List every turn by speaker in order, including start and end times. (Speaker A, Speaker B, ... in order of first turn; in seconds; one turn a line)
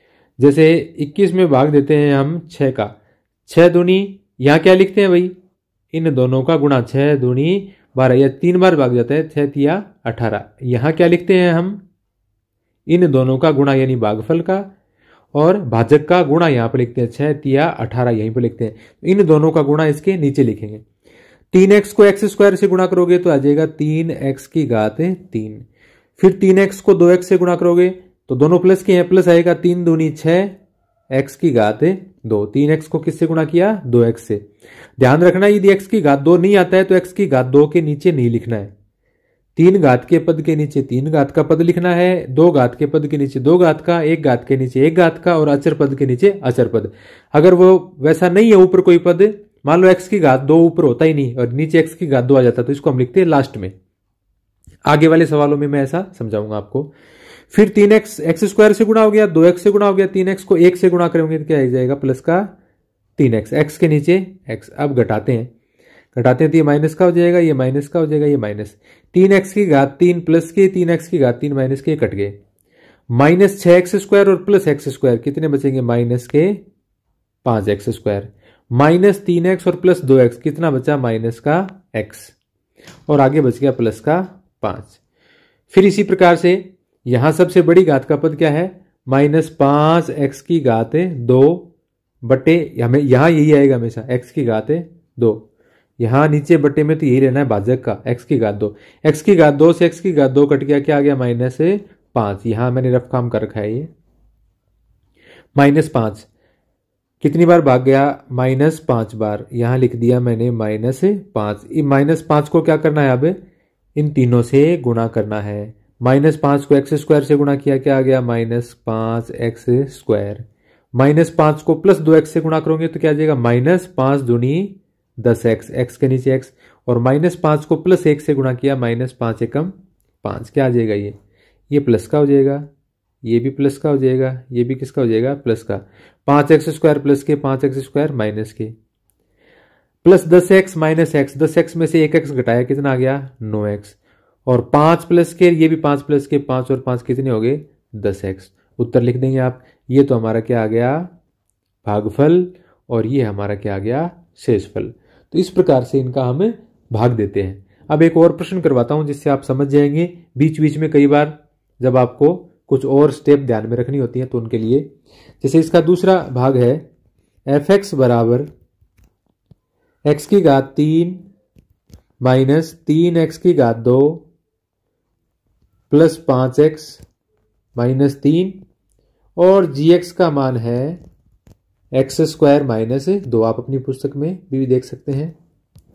Speaker A: 0.4-2.9
Speaker A: 3.5-5.3
Speaker A: 5.9-11.8
Speaker A: 12.9-14.7
Speaker A: 15.3-20.8
Speaker A: 21.5-25.6
Speaker A: 26.2-30.6
Speaker A: 31.1-34.5
Speaker A: 35.0-38.7
Speaker A: 39.5-53.7
Speaker A: 54.9-56.9
Speaker A: 57.5-62.5
Speaker A: 63.2-65.5
Speaker A: 66.1-72.3
Speaker A: 73.1-76.6
Speaker A: 77.4-82.3
Speaker A: 83.1-85.0
Speaker A: 85.7-91.7
Speaker A: 92.2-95.4
Speaker A: 96.0-103.9
Speaker A: 105.5-106.3
Speaker A: 107.2-113.4
Speaker A: 114.0-120.4
Speaker A: 120.9-131.2
Speaker A: 131.7-132.7
Speaker A: 133.2-138.7
Speaker A: 140.0-151.1
Speaker A: 151.8-164.9
Speaker A: 165.4-166.8
Speaker A: 167.5-168.5
Speaker A: 170.1-171.2
Speaker A: 172.2-174.2
Speaker A: 175.9-177.0
Speaker A: 177.8-178.6
Speaker A: 179.4-181.0
Speaker A: 181.9-185.3